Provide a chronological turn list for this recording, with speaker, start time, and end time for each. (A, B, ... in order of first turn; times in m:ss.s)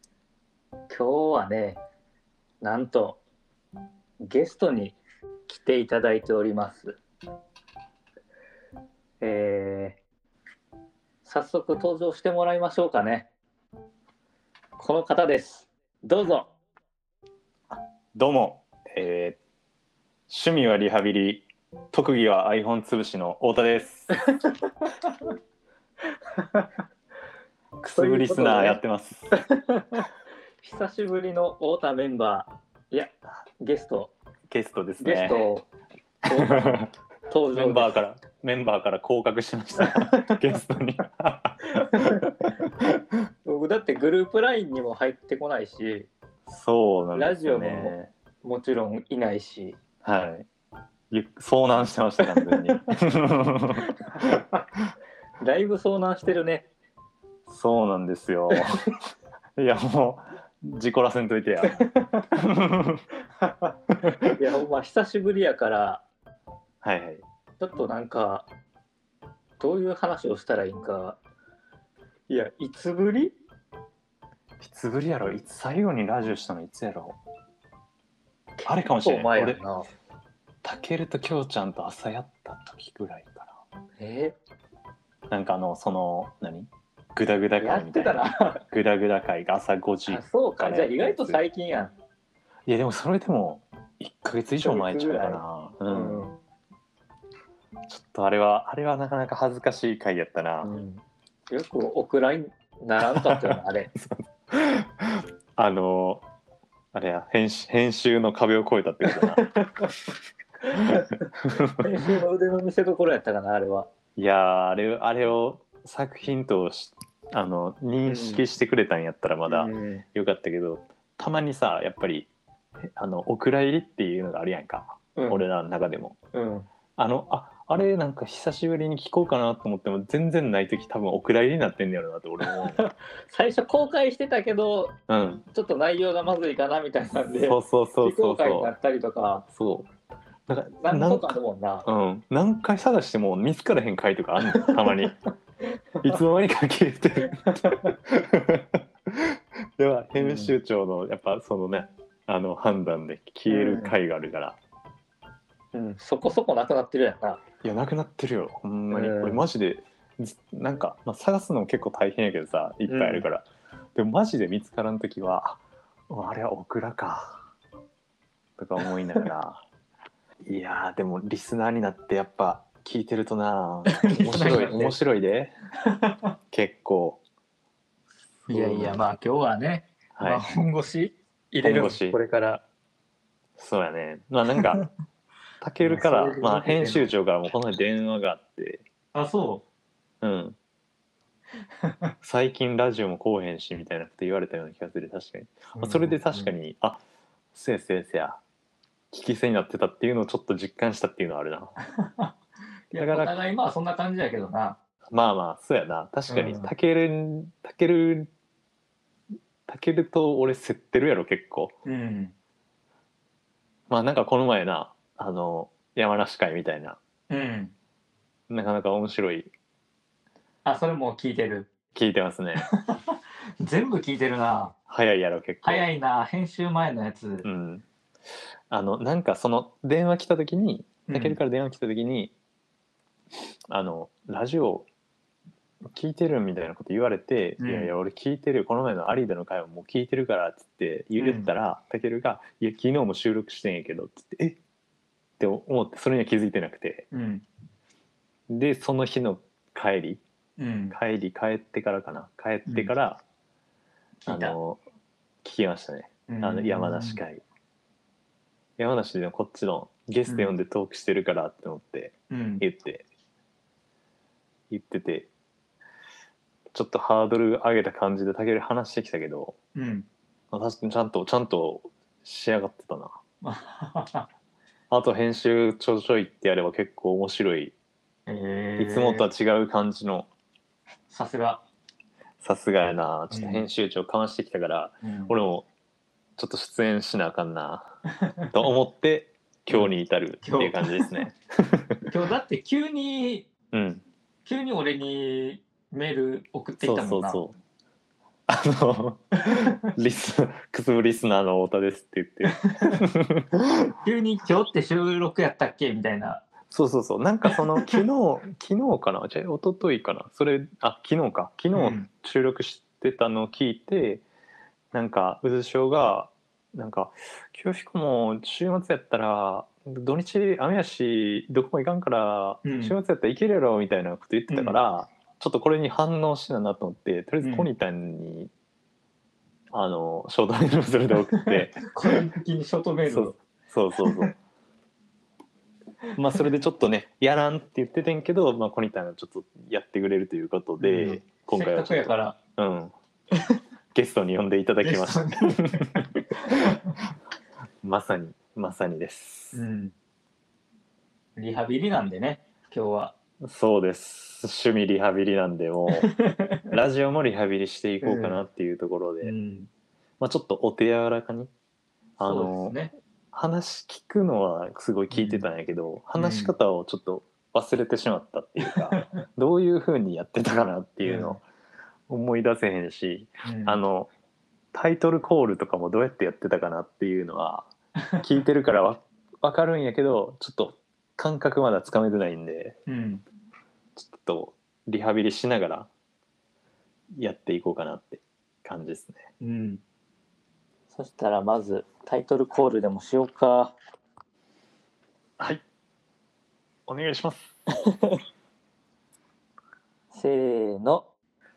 0:00.9-0:01.8 A
0:02.6-0:03.2 A
0:04.2-0:07.0 A
0:09.2-0:10.0 A
0:11.2-0:13.3 A
0:14.8-0:16.5 A
0:17.7-0:19.4 B
0:20.3-0:24.1 B
0:27.8-0:29.3 B
0:27.9-0:28.8 A
0:29.3-0:30.1 A
0:30.6-0:34.1 A
0:34.5-0:35.4 B
0:35.0-0:35.7 A
0:36.3-0:38.0 A
0:36.3-0:36.9 B
0:37.5-0:43.0 B
0:41.7-0:42.4 A
0:43.4-0:46.1 A
0:46.5-0:48.1 B
0:47.1-0:49.8 A
0:50.0-0:50.5 B
0:51.1-0:54.9 B
0:52.3-0:52.8 A
0:53.9-0:54.2 A
0:55.4-0:56.7 A
0:57.5-0:58.8 B
0:59.6-1:03.0 B
1:01.6-1:02.4 A
1:03.9-1:04.3 B
1:04.2-1:06.0 A
1:06.8-1:07.2 B
1:07.6-1:08.4 A
1:09.6-1:11.2 A
1:12.3-1:13.4 A
1:14.6-1:17.2 B
1:18.6-1:19.9 A
1:18.6-1:19.6 B
1:20.6-1:23.6 B
1:24.0-1:24.4 A
1:25.3-1:31.4 B
1:27.6-1:28.6 A
1:30.1-1:31.9 A
1:32.7-1:36.3 B
1:34.6-1:36.4 A
1:37.9-1:40.7 B
1:40.6-1:43.9 A
1:43.1-1:46.2 B
1:46.9-1:49.5 B
1:49.1-1:50.0 A
1:50.6-1:53.9 A
1:50.7-1:51.8 B
1:54.2-2:02.3 B
1:58.1-1:58.4 A
1:59.5-2:00.0 A
2:02.8-2:06.2 B
2:05.2-2:05.4 A
2:06.3-2:06.7 A
2:07.0-2:12.8 B
2:12.4-2:14.9 A
2:15.1-2:15.4 B
2:15.5-2:19.4 A
2:17.3-2:18.7 B
2:19.5-2:19.9 B
2:20.5-2:21.3 B
2:20.8-2:21.9 A
2:21.8-2:25.2 B
2:24.5-2:25.0 A
2:26.0-2:34.6 B
2:27.4-2:27.9 A
2:30.2-2:30.6 A
2:33.5-2:33.9 A
2:35.7-2:37.4 A
2:37.6-2:47.4 B
2:38.9-2:39.4 A
2:42.9-2:43.3 A
2:48.6-2:49.6 B
2:48.8-2:49.2 A
2:50.4-2:55.5 B
2:53.9-2:55.0 A
2:55.9-2:56.2 A
2:56.5-2:57.2 B
2:58.5-3:02.6 A
2:58.5-2:59.0 B
3:00.2-3:00.4 B
3:01.6-3:02.2 B
3:03.6-3:04.8 B
3:05.6-3:08.8 B
3:05.8-3:07.1 A
3:09.1-3:09.6 A
3:10.2-3:10.6 B
3:12.2-3:17.0 B
3:15.8-3:16.5 A
3:17.5-3:18.4 B
3:19.1-3:21.8 B
3:21.9-3:22.4 A
3:22.9-3:24.8 A
3:23.0-3:23.4 B
3:25.1-3:28.3 B
3:26.3-3:26.7 A
3:29.7-3:31.8 B
3:31.8-3:32.3 A
3:33.9-3:37.0 B
3:37.3-3:37.7 A
3:38.5-3:39.5 B
3:40.6-3:41.7 A
3:41.9-3:42.7 B
3:42.6-3:44.7 A
3:44.9-3:45.8 B
3:45.6-3:47.5 A
3:47.4-3:47.8 B
3:48.7-3:52.3 B
3:51.1-3:51.4 A
3:53.7-3:54.9 B
3:55.9-4:04.6 B
3:57.6-3:57.9 A
4:01.2-4:01.5 A
4:05.4-4:07.1 B
4:07.1-4:07.4 A
4:08.5-4:10.2 B
4:10.6-4:11.0 A
4:10.9-4:13.2 B
4:12.7-4:12.9 A
4:14.3-4:14.6 A
4:14.3-4:14.8 B
4:15.4-4:17.4 B
4:16.3-4:17.2 A
4:18.8-4:23.0 B
4:20.2-4:20.5 A
4:22.3-4:22.6 A
4:24.7-4:25.3 B
4:26.7-4:29.6 B
4:29.7-4:30.1 A
4:30.5-4:33.1 B
4:33.4-4:34.3 A
4:34.9-4:37.7 B
4:38.3-4:39.3 A
4:38.8-4:40.3 B
4:41.1-4:41.6 A
4:42.4-4:45.7 B
4:43.3-4:43.6 A
4:45.0-4:45.4 A
4:46.4-4:48.0 B
4:48.2-4:48.5 A
4:48.5-4:52.1 B
4:49.7-4:51.1 A
4:52.1-4:53.5 A
4:53.7-4:54.0 B
4:54.4-4:57.4 A
4:56.8-4:57.5 B
4:58.5-5:03.9 B
5:02.6-5:03.0 A
5:04.0-5:06.4 A
5:06.7-5:14.2 B
5:07.5-5:08.0 A
5:11.7-5:12.1 A
5:14.9-5:28.5 B
5:22.6-5:23.0 A
5:24.5-5:24.8 A
5:27.4-5:27.7 A
5:29.7-5:31.9 B
5:31.3-5:33.4 A
5:33.1-5:34.3 B
5:34.1-5:34.3 A
5:36.1-5:42.9 B
5:40.8-5:42.4 A
5:43.9-5:46.0 B
5:44.8-5:46.9 A
5:47.8-5:49.6 B
5:49.5-5:49.9 A
5:51.4-5:53.2 A
5:53.4-5:56.1 B
5:55.9-5:56.6 A
5:56.7-5:59.3 B
5:58.0-5:58.4 A
5:59.2-5:59.7 A
6:00.2-6:01.5 B
6:02.2-6:02.8 B
6:02.2-6:02.9 A
6:03.3-6:11.4 B
6:05.1-6:05.4 A
6:06.2-6:06.5 A
6:08.7-6:09.2 A
6:11.0-6:11.4 A
6:12.1-6:14.1 B
6:13.4-6:13.8 A
6:14.7-6:22.8 B
6:22.9-6:23.2 A
6:24.0-6:25.9 B
6:27.2-6:29.2 B
6:29.4-6:29.8 A
6:30.9-6:33.7 A
6:36.9-6:37.4 B
6:37.7-6:38.2 A
6:40.1-6:41.1 A